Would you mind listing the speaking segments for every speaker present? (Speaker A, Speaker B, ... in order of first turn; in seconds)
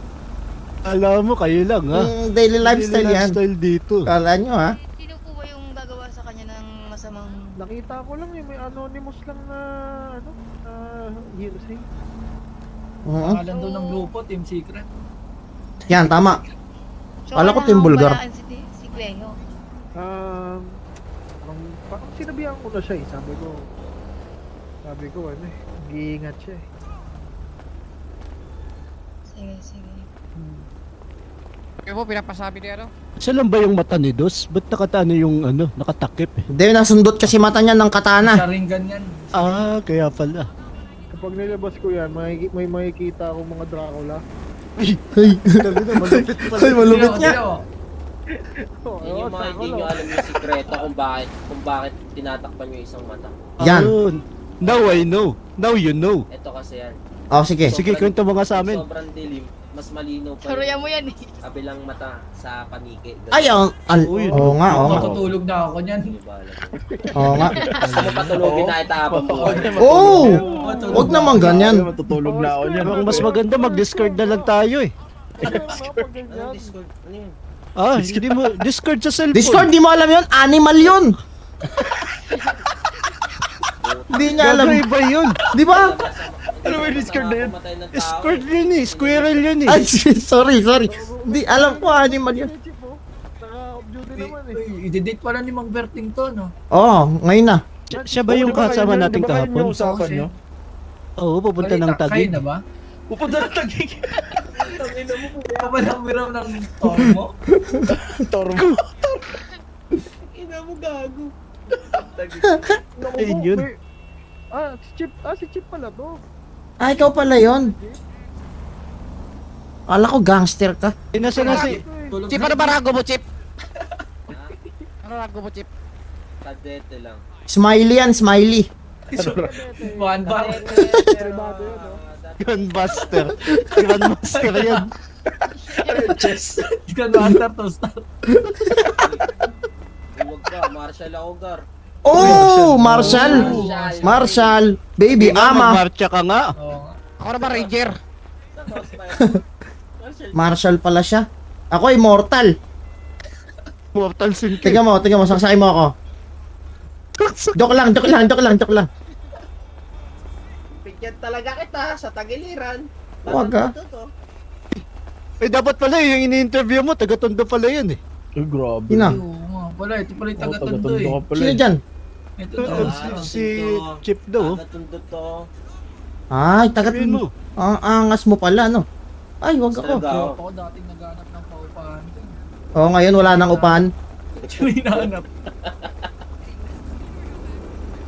Speaker A: 0.8-4.1, 33.2-36.4, 39.3-40.5, 45.6-46.9, 53.6-56.2, 57.7-58.8, 64.0-65.1, 67.8-68.5, 72.8-74.9, 77.8-79.7, 84.4-85.4, 87.9-89.8, 97.9-99.8, 101.2-102.4, 113.2-113.7, 121.1-121.8, 132.4-134.9, 142.1-143.3, 145.1-146.5, 153.9-154.8, 157.2-157.6, 165.4-168.0, 172.6-174.6, 176.8-177.3
Speaker B: 1.9-3.4, 4.1-4.8, 13.1-13.4, 15.9-16.4, 17.4-18.2, 36.5-38.4, 45.2-47.4, 53.6-53.9, 57.3-57.8, 63.3-65.1, 67.2-67.6, 69.8-71.9, 79.3-81.2, 84.1-84.9, 85.5-85.9, 89.7-92.5, 96.7-97.6, 116.8-117.7, 119.9-121.0, 127.5-128.7, 138.4-138.7, 142.1-145.8, 150.3-152.5, 154.6-155.9, 157.6-158.9, 163.3-163.7, 168.9-169.2, 171.3-171.8, 176.3-178.9, 179.4-180.1, 182.8-183.9
Speaker C: 4.9-7.5, 13.5-14.1, 17.3-19.4, 29.3-30.1, 60.4-61.4, 67.6-68.1, 135.8-136.3
Speaker D: 7.6-11.8, 20.0-20.7, 21.4-23.6, 24.9-26.6, 41.1-44.2, 48.7-50.2, 70.2-71.3, 72.1-74.5, 75.4-76.7, 90.9-94.6, 97.9-98.7, 113.0-113.8, 114.5-116.2, 117.3-118.0, 121.4-122.2, 129.2-132.0
Speaker E: 13.2-14.9, 16.0-16.4, 38.2-39.6, 46.8-47.6, 64.7-66.1, 69.5-71.5, 94.2-96.5, 99.8-100.3, 101.6-102.6, 105.5-107.3, 121.3-122.8, 129.8-130.6, 134.3-134.8, 136.7-138.0, 142.9-144.2, 146.6-147.0, 169.0-171.2, 172.4-173.3, 179.9-182.4, 183.2-183.9, 184.5-185.3
Speaker F: 31.9-32.9, 122.3-123.2, 125.0-125.7, 147.2-148.0
Speaker G: 49.0-53.5, 54.6-55.1, 56.3-57.0, 57.7-63.6, 64.8-66.8, 67.9-69.9, 76.3-77.3, 83.8-84.5, 85.6-89.4, 104.5-105.9, 110.2-112.5, 126.4-127.2, 130.2-133.6, 139.0-139.3, 140.2-141.6, 143.2-144.6, 147.4-147.8, 148.6-149.3, 150.0-150.6, 160.8-164.1, 172.6-175.4, 179.8-180.4, 184.4-185.1
Speaker H: 67.0-73.3, 75.5-76.1, 78.0-78.6, 86.6-87.6, 98.3-100.3, 103.1-104.4, 107.9-109.3, 129.1-129.6, 135.8-136.7, 142.1-143.7, 168.4-169.2, 170.4-171.6